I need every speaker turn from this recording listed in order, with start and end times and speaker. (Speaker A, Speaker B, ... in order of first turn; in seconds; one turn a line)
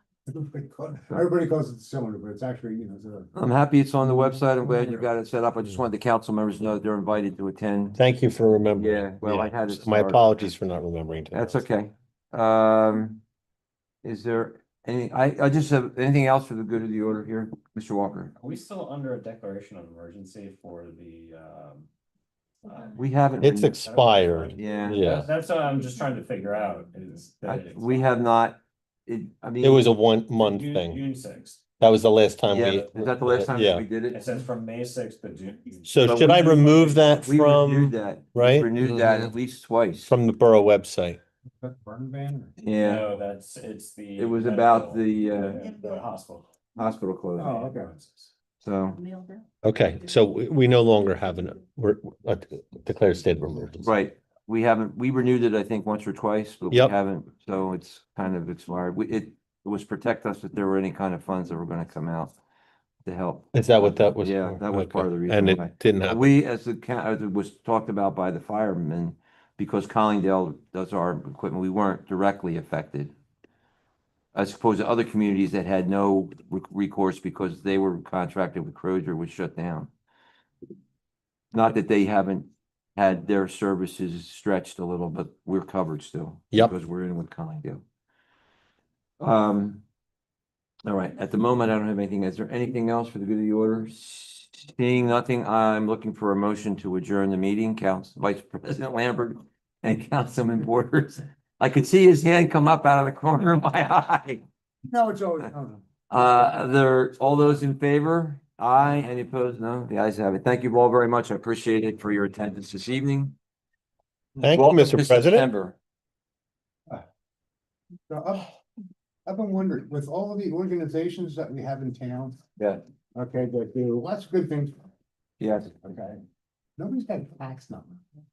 Speaker A: 0.3-3.3
Speaker B: 3.3-8.0
Speaker C: 7.9-11.6
Speaker B: 8.8-10.2
Speaker B: 11.3-13.2
Speaker B: 14.0-18.3
Speaker D: 18.4-21.9
Speaker D: 22.6-28.1
Speaker B: 22.9-23.7
Speaker C: 23.4-25.3
Speaker B: 24.5-25.0
Speaker B: 27.4-29.9
Speaker C: 29.6-31.0
Speaker D: 30.3-31.6
Speaker C: 31.8-33.8
Speaker B: 32.5-34.2
Speaker D: 32.6-33.2
Speaker D: 34.1-37.1
Speaker C: 35.8-38.7
Speaker B: 36.0-40.1
Speaker C: 40.0-41.2
Speaker A: 41.6-42.6
Speaker B: 42.6-43.0
Speaker D: 42.8-46.5
Speaker B: 44.2-45.6
Speaker B: 46.8-47.6
Speaker A: 47.4-47.9
Speaker D: 47.5-48.3
Speaker B: 48.6-49.0
Speaker C: 49.6-53.9
Speaker B: 53.8-62.3
Speaker B: 63.0-73.1
Speaker C: 63.5-66.2
Speaker B: 74.3-79.9
Speaker B: 81.5-87.8
Speaker B: 89.2-89.8
Speaker B: 90.8-104.4
Speaker A: 104.8-106.3
Speaker B: 106.1-113.3
Speaker B: 114.4-115.8
Speaker C: 114.4-115.5
Speaker A: 118.1-118.5
Speaker A: 119.2-122.4
Speaker B: 122.6-122.8
Speaker A: 123.1-124.7
Speaker B: 125.4-125.7
Speaker A: 125.8-126.2
Speaker A: 126.8-128.0